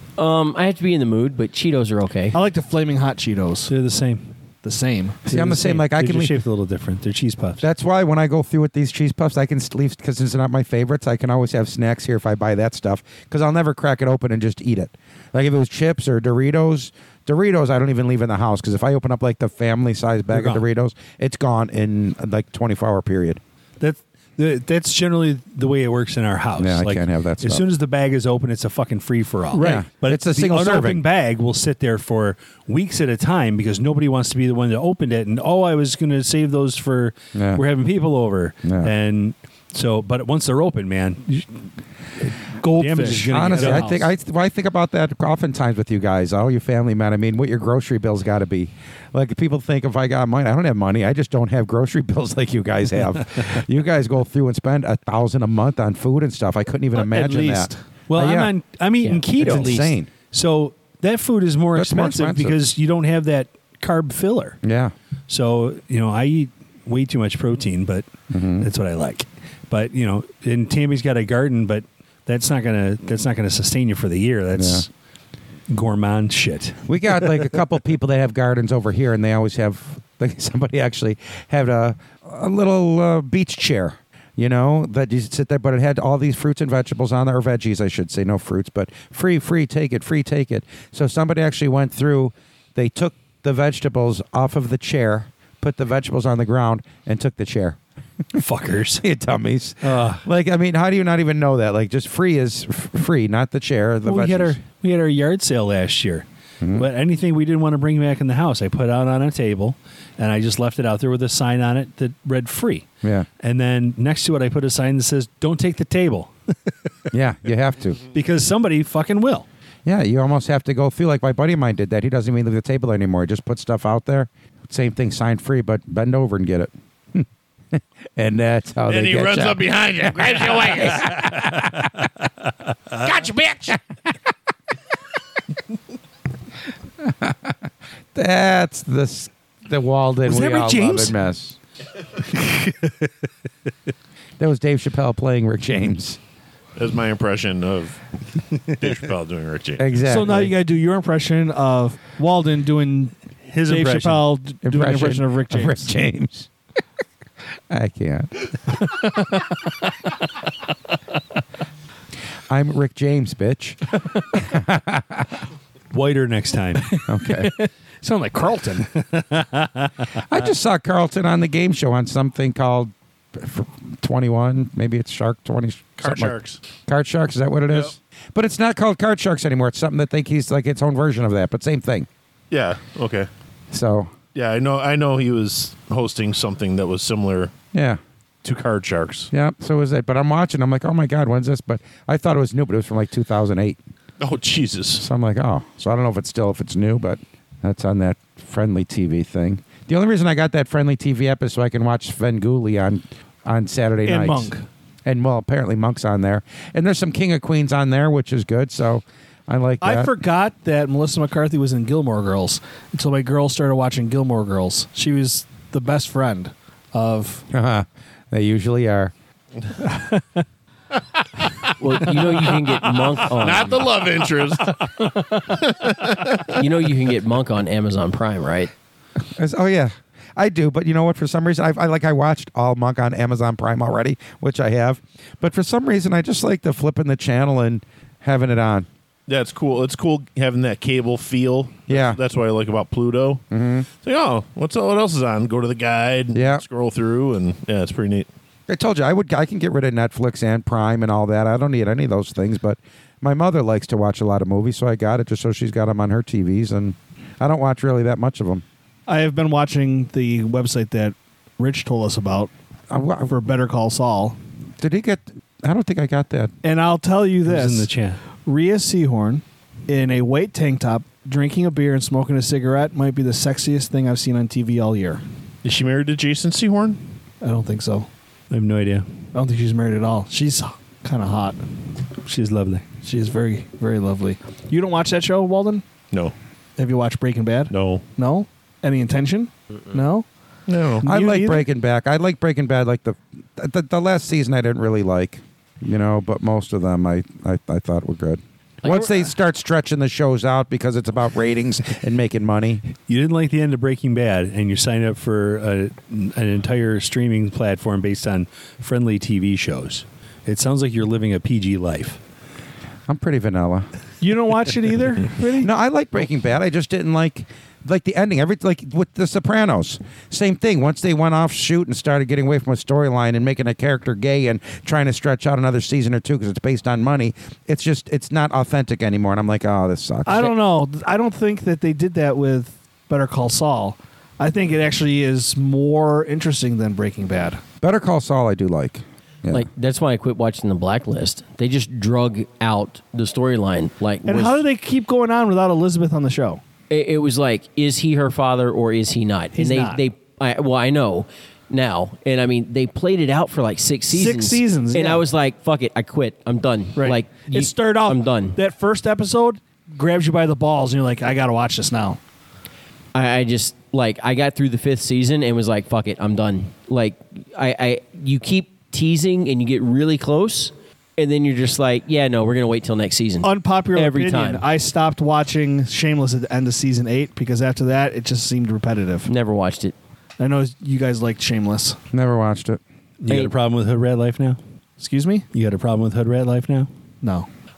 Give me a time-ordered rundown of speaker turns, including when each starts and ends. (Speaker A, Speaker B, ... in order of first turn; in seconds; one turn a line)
Speaker A: 0.2-2.4
Speaker B: 2.3-3.7
Speaker C: 3.7-4.3
Speaker B: 4.6-5.2
Speaker D: 5.2-6.3
Speaker C: 5.3-7.6
Speaker D: 7.6-23.4
Speaker C: 20.3-20.6
Speaker C: 23.8-41.7
Speaker D: 26.6-27.6
Speaker B: 29.5-29.9
Speaker D: 29.6-31.0
Speaker D: 37.3-37.6
Speaker D: 38.6-38.9
Speaker C: 42.6-44.1
Speaker B: 42.6-44.1
Speaker D: 43.0-58.5
Speaker B: 56.9-57.8
Speaker C: 58.1-64.6
Speaker D: 59.2-60.1
Speaker D: 61.7-62.6
Speaker D: 64.6-64.9
Speaker C: 65.3-74.9
Speaker D: 68.3-68.7
Speaker D: 74.5-74.8
Speaker C: 75.7-77.3
Speaker D: 76.9-97.8
Speaker C: 98.3-99.0
Speaker D: 99.0-104.6
Speaker C: 99.8-100.2
Speaker C: 104.0-112.9
Speaker D: 106.6-106.9
Speaker D: 113.0-113.3
Speaker C: 113.4-116.8
Speaker D: 117.1-118.0
Speaker C: 118.1-119.5
Speaker D: 119.8-129.7
Speaker E: 128.9-131.0
Speaker F: 129.7-131.1
Speaker D: 131.0-131.8
Speaker F: 133.0-133.7
Speaker D: 137.0-137.5
Speaker D: 138.1-141.6
Speaker C: 140.2-141.2
Speaker D: 144.4-146.2
Speaker E: 146.8-148.0
Speaker E: 148.6-149.9
Speaker D: 149.8-150.5
Speaker B: 150.0-155.9
Speaker C: 153.5-154.3
Speaker D: 154.6-156.5
Speaker D: 157.7-158.5
Speaker B: 159.0-159.5
Speaker D: 162.5-165.3
Speaker C: 165.9-166.9
Speaker B: 166.9-168.9
Speaker D: 167.1-167.5
Speaker C: 168.9-170.0
Speaker D: 170.2-182.1
Speaker E: 176.0-176.6
Speaker E: 182.5-183.3
Speaker D: 183.7-184.1
Speaker E: 184.3-187.5
Speaker D: 187.7-188.0
Speaker E: 188.4-189.3
Speaker D: 189.3-193.8
Speaker E: 194.2-195.1
Speaker D: 195.0-204.5
Speaker B: 204.0-204.7
Speaker D: 205.0-210.1
Speaker B: 209.8-217.4
Speaker D: 217.5-219.1
Speaker B: 219.9-220.4
Speaker A: 221.8-223.9
Speaker E: 223.1-226.6
Speaker A: 226.5-228.7
Speaker D: 229.3-238.9
Speaker E: 239.3-243.4
Speaker D: 241.9-242.2
Speaker D: 243.5-243.9
Speaker E: 244.0-248.3
Speaker D: 246.3-246.6
Speaker D: 248.7-258.6
Speaker B: 259.1-262.5
Speaker D: 262.9-263.3
Speaker B: 263.3-264.4
Speaker D: 264.8-266.5
Speaker B: 266.6-267.9
Speaker C: 267.4-268.2
Speaker B: 268.4-275.2
Speaker E: 275.6-277.0
Speaker B: 277.4-278.1
Speaker C: 278.5-279.1
Speaker B: 279.3-281.6
Speaker C: 282.2-282.9
Speaker B: 283.0-285.8
Speaker B: 286.8-290.3
Speaker E: 287.7-288.0
Speaker E: 290.7-291.1
Speaker B: 291.0-291.7
Speaker D: 291.0-302.8
Speaker B: 298.9-299.2
Speaker C: 303.1-312.2
Speaker D: 313.1-313.9
Speaker B: 314.2-315.7
Speaker D: 315.5-330.5
Speaker B: 330.2-337.6
Speaker D: 337.8-339.6
Speaker A: 339.5-344.6
Speaker B: 344.2-346.6
Speaker A: 346.9-358.6
Speaker B: 349.5-350.0
Speaker B: 354.1-355.2
Speaker B: 356.9-362.2
Speaker A: 363.1-374.6
Speaker B: 373.4-379.3
Speaker A: 379.2-379.9
Speaker B: 380.4-382.0
Speaker D: 382.1-382.8
Speaker C: 383.2-384.6
Speaker B: 385.0-385.4
Speaker C: 385.5-386.9
Speaker B: 387.2-387.5